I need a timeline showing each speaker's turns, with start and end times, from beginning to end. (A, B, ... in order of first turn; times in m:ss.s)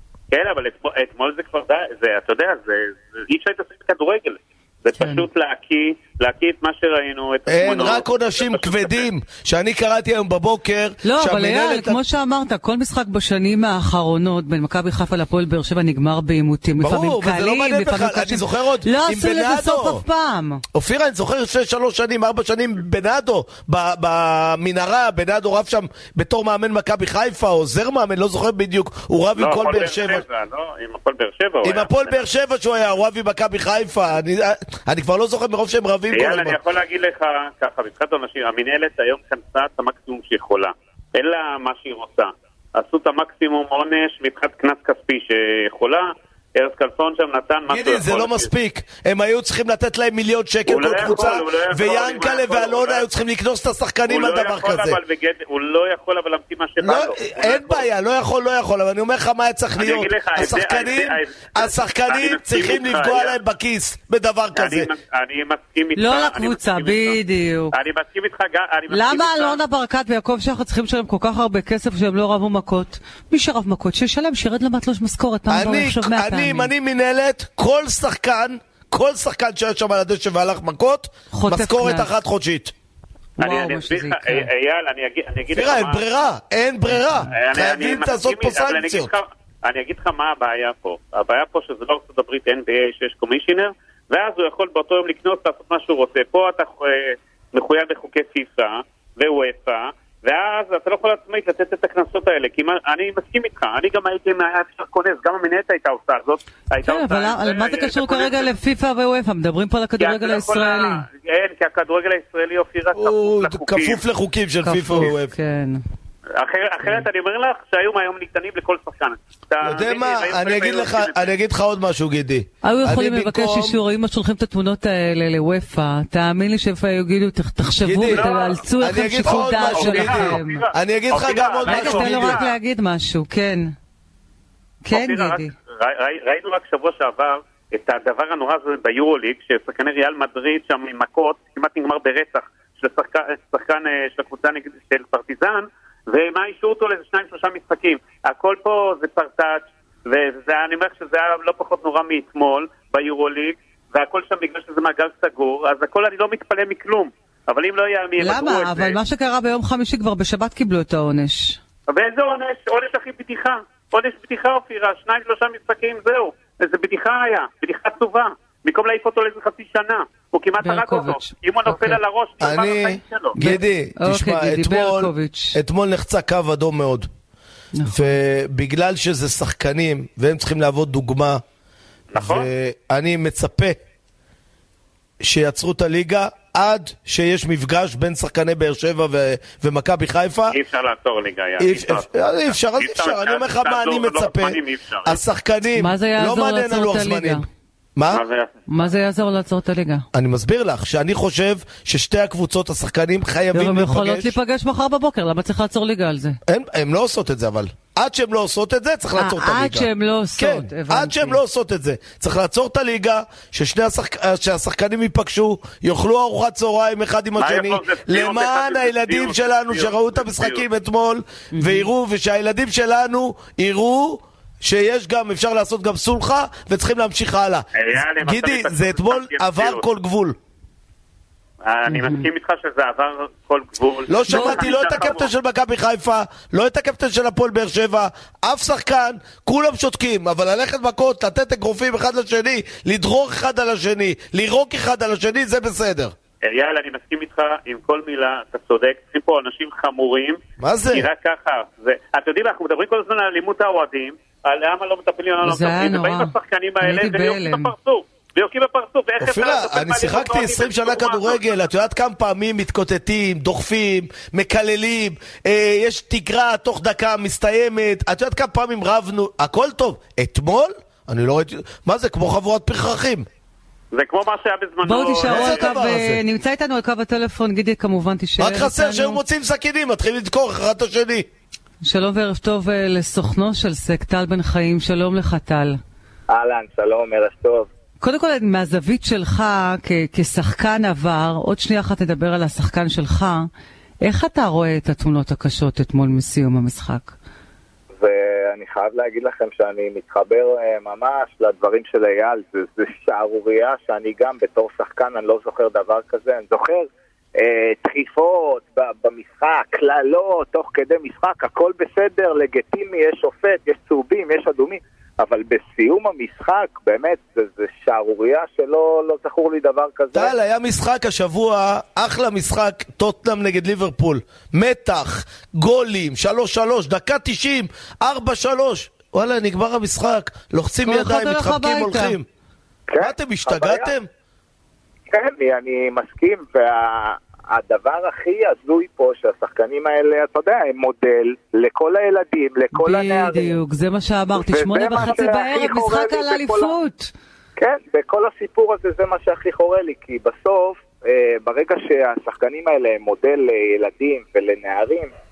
0:00.3-0:09.0 A
0:05.0-0:05.2 B
0:07.5-0:12.0 C
0:11.0-0:20.6 B
0:16.8-0:20.0 C
0:20.7-0:30.2 C
0:29.4-0:32.2 A
0:31.6-0:36.6 C
0:36.1-0:48.5 A
0:47.7-0:55.0 C
0:50.6-0:53.0 A
0:54.1-0:57.8 A
0:56.8-1:04.9 C
0:59.8-1:03.4 A
1:04.5-1:07.2 A
1:06.0-1:07.7 B
1:07.7-1:09.6 A
1:08.9-1:16.7 B
1:15.5-1:22.7 C
1:21.3-1:22.1 B
1:23.4-1:26.0 A
1:23.4-1:24.5 B
1:25.5-1:29.1 C
1:27.3-1:48.5 A
1:46.8-1:51.0 B
1:50.0-1:54.0 A
1:52.9-1:55.3 C
1:54.6-1:55.8 B
1:56.4-2:01.3 A
1:59.6-2:03.8 C
2:02.6-2:10.6 B
2:07.8-2:08.2 C
2:08.1-2:08.6 A
2:08.8-2:12.4 C
2:09.2-2:12.5 A
2:11.6-2:13.7 B
2:14.8-2:15.5 B
2:14.9-2:38.9 A
2:38.2-2:41.6 B
2:41.9-2:53.4 A
2:50.6-2:52.0 B
2:52.4-2:57.1 C
2:53.4-2:55.6 B
2:57.7-2:58.1 B
2:57.9-3:01.4 C
3:02.1-3:02.5 A
3:02.2-3:03.8 C
3:05.2-3:10.6 C
3:10.5-3:15.2 A
3:11.6-3:17.4 C
3:15.7-3:17.4 B
3:18.0-3:18.2 C
3:18.1-3:18.6 A
3:18.7-3:20.0 B
3:20.1-3:24.3 C
3:23.5-3:26.4 B
3:26.5-3:50.4 C
3:29.2-3:31.4 B
3:37.4-3:40.6 A
3:41.6-3:41.8 B
3:47.7-3:49.8 A
3:51.6-3:55.3 A
3:51.9-3:52.2 B
3:54.1-4:06.1 C
3:54.3-3:54.7 B
4:06.4-4:10.4 A
4:10.6-4:11.1 C
4:10.9-4:21.5 A
4:15.4-4:17.7 B
4:19.2-4:33.2 C
4:33.9-4:35.7 A
4:34.8-4:39.2 B
4:35.2-4:36.2 C
4:38.4-4:41.3 C
4:41.8-4:45.8 B
4:46.3-4:47.7 D
4:48.0-4:53.5 B
4:54.0-4:57.1 B
4:58.0-5:20.3 D
5:20.1-5:32.2 C
5:30.8-5:32.2 B
5:32.9-5:33.9 D
5:33.0-5:34.1 C
5:35.1-5:43.5 D
5:42.7-5:47.1 B
5:44.3-5:46.7 D
5:47.6-5:55.1 D